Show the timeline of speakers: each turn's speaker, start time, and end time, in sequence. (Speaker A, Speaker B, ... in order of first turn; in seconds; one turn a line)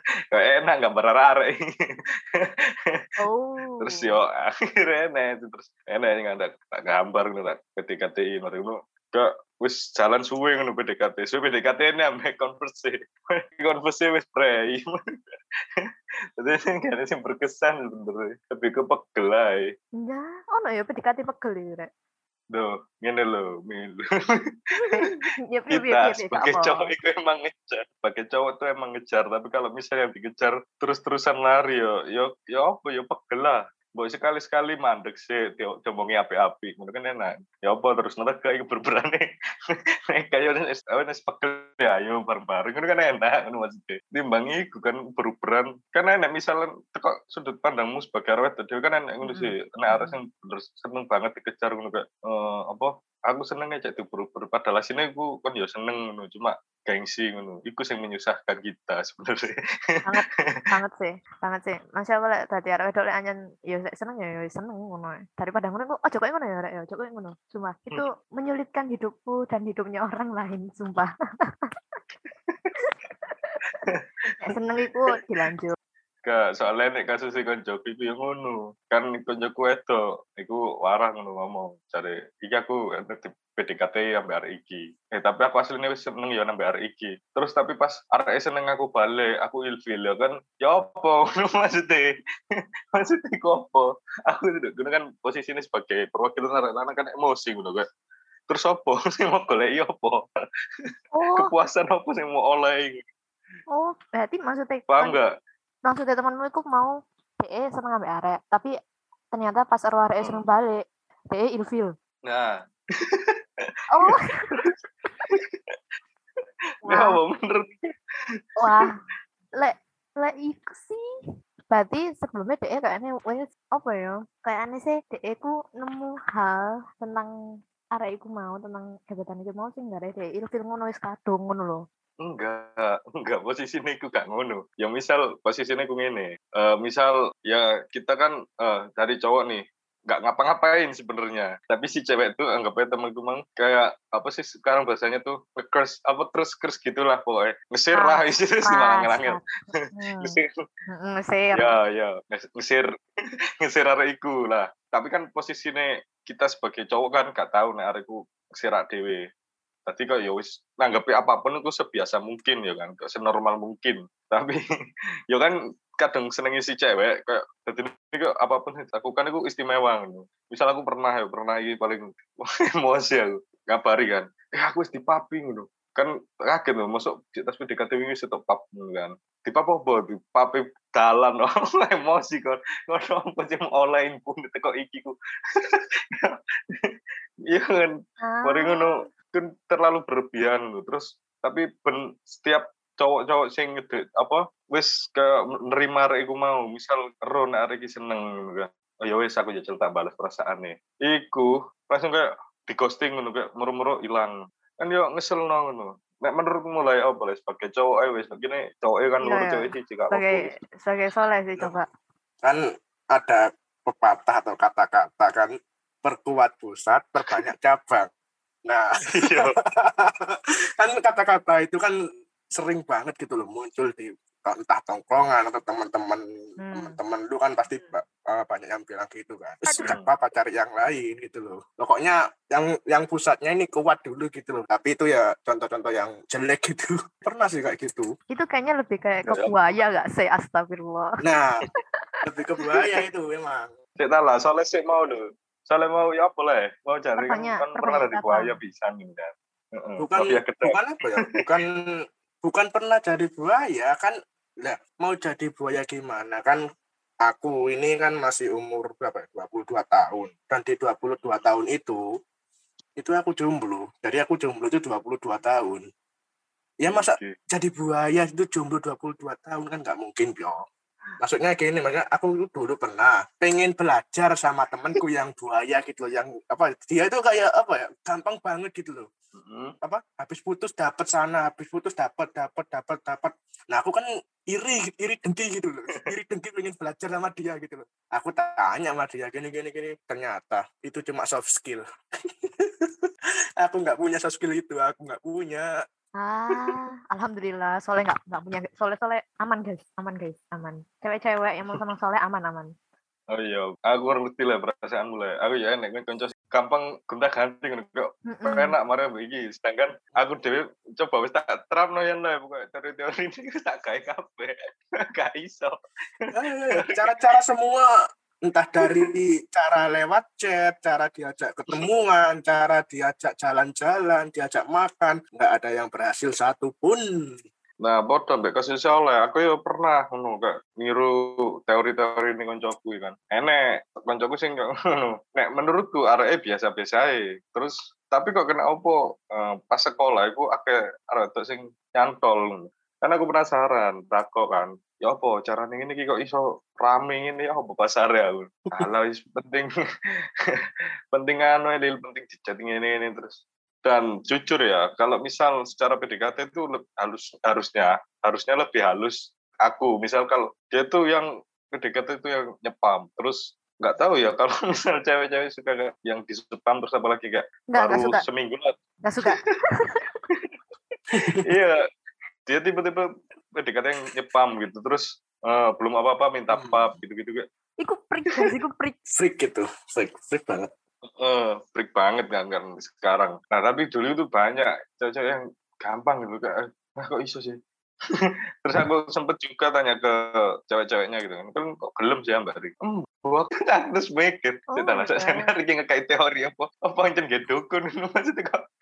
Speaker A: 0.3-1.6
Speaker A: 2.4-2.9
Speaker B: 3.2-3.9
Speaker A: 3.8-15.0
Speaker A: 16.4-19.7
Speaker B: 20.0-21.9
Speaker A: 22.5-24.1
Speaker B: 24.8-26.9
Speaker A: 25.7-39.3
Speaker A: 40.1-60.5
Speaker B: 49.2-50.2
Speaker B: 60.1-71.1
Speaker A: 72.5-72.8
Speaker B: 73.3-73.6
Speaker B: 74.4-75.8
Speaker A: 76.2-92.0
Speaker A: 92.9-97.8
Speaker A: 98.5-100.2
Speaker B: 101.1-101.5
Speaker A: 101.3-103.0
Speaker B: 103.7-105.2
Speaker A: 104.9-105.3
Speaker B: 105.9-108.7
Speaker B: 109.3-111.9
Speaker A: 112.2-112.5
Speaker A: 113.1-113.3
Speaker B: 113.9-114.5
Speaker A: 114.1-114.7
Speaker A: 115.3-115.7
Speaker A: 116.8-117.9
Speaker B: 116.9-117.2
Speaker B: 118.6-119.0
Speaker B: 119.6-121.0
Speaker B: 121.7-127.3
Speaker B: 127.9-131.8
Speaker A: 132.2-149.4
Speaker B: 147.9-151.7
Speaker A: 150.2-150.5
Speaker A: 151.6-152.9
Speaker A: 153.6-159.2
Speaker A: 159.9-164.6
Speaker A: 165.3-185.2
Speaker A: 185.7-186.9
Speaker A: 187.5-210.5
Speaker B: 188.2-189.1
Speaker B: 209.2-211.9
Speaker C: 212.4-215.5
Speaker C: 216.0-218.1
Speaker C: 218.7-220.3
Speaker A: 219.1-219.5
Speaker C: 220.8-221.9
Speaker C: 222.5-238.1
Speaker B: 226.6-227.0
Speaker B: 229.7-229.9
Speaker A: 229.8-230.1
Speaker B: 238.3-241.1
Speaker A: 239.3-239.5
Speaker C: 241.2-241.6
Speaker B: 241.8-242.1
Speaker C: 242.2-243.7
Speaker B: 242.7-242.9
Speaker A: 244.0-250.8
Speaker B: 247.2-248.6
Speaker C: 250.0-251.7
Speaker C: 252.4-256.6
Speaker C: 257.2-262.0
Speaker C: 263.0-265.8
Speaker C: 266.8-270.6
Speaker A: 266.9-267.4
Speaker C: 271.2-279.1
Speaker A: 279.4-279.7
Speaker C: 279.8-291.9
Speaker C: 292.4-292.9
Speaker C: 293.6-295.7
Speaker B: 296.2-302.7
Speaker A: 303.3-314.6
Speaker B: 308.3-308.7
Speaker A: 315.1-315.8
Speaker C: 316.3-317.9
Speaker C: 318.5-327.4
Speaker A: 327.8-349.7
Speaker A: 351.1-368.7
Speaker B: 367.7-368.2
Speaker B: 369.0-370.1
Speaker C: 371.2-371.4
Speaker A: 371.4-371.8
Speaker A: 372.5-377.4
Speaker C: 376.5-376.9
Speaker B: 377.8-379.0
Speaker C: 379.1-380.7
Speaker A: 381.2-387.6
Speaker A: 388.2-398.6
Speaker B: 394.8-395.5